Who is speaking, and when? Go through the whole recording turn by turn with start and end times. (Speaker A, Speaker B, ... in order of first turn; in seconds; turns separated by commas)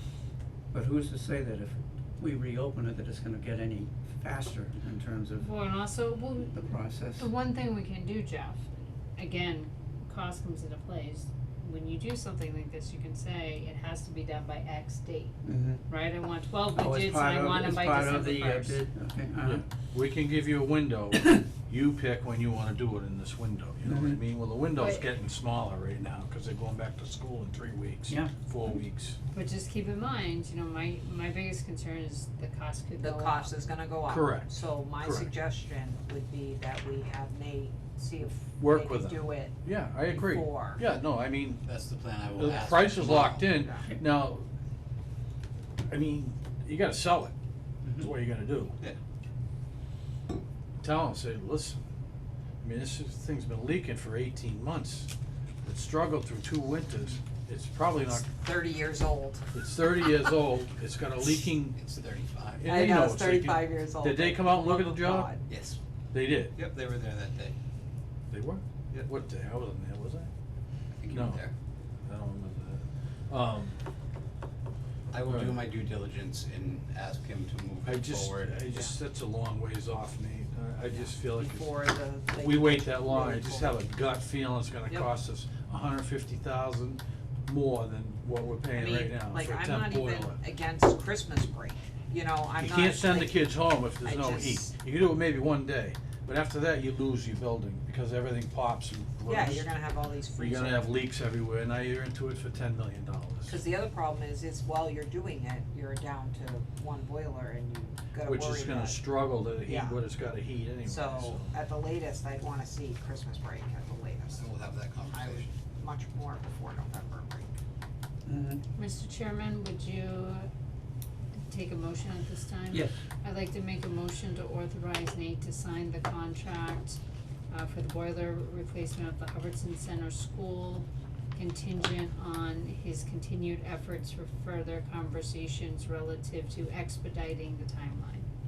Speaker A: 0.7-5.5, Speaker B: 5.4-6.6, Speaker A: 6.5-7.3, Speaker B: 7.2-15.3, Speaker A: 15.4-15.8, Speaker B: 15.9-18.8, Speaker A: 16.7-19.6, Speaker C: 19.4-29.2, Speaker A: 23.8-24.2, Speaker B: 24.8-25.0, Speaker A: 28.1-28.3, Speaker B: 29.3-33.5, Speaker D: 33.0-40.8, Speaker C: 34.1-35.3, Speaker C: 38.6-41.6, Speaker E: 41.6-43.5, Speaker C: 42.3-44.4, Speaker D: 43.5-43.9, Speaker C: 45.9-47.3, Speaker C: 47.9-48.8, Speaker C: 50.8-51.8, Speaker C: 52.6-55.1, Speaker C: 55.6-58.3, Speaker D: 58.2-59.5, Speaker C: 59.5-61.8, Speaker E: 61.7-62.7, Speaker C: 62.6-65.3, Speaker D: 62.6-65.4, Speaker E: 65.5-65.8, Speaker C: 66.1-66.5, Speaker E: 66.5-67.5, Speaker C: 68.3-70.3, Speaker E: 71.0-71.5, Speaker C: 71.1-71.5, Speaker C: 72.0-73.8, Speaker E: 75.1-78.6, Speaker C: 75.2-75.6, Speaker C: 77.8-81.7, Speaker D: 80.9-83.8, Speaker C: 82.3-90.4, Speaker D: 88.7-93.4, Speaker C: 92.6-99.7, Speaker D: 94.0-94.7, Speaker D: 99.3-100.9, Speaker C: 100.4-103.6, Speaker D: 103.5-109.1, Speaker C: 108.2-111.5, Speaker D: 109.6-110.0, Speaker D: 110.8-114.5, Speaker E: 114.3-115.5, Speaker D: 115.1-117.5, Speaker A: 118.2-118.6, Speaker B: 118.8-120.5, Speaker B: 121.5-127.0, Speaker B: 127.5-138.3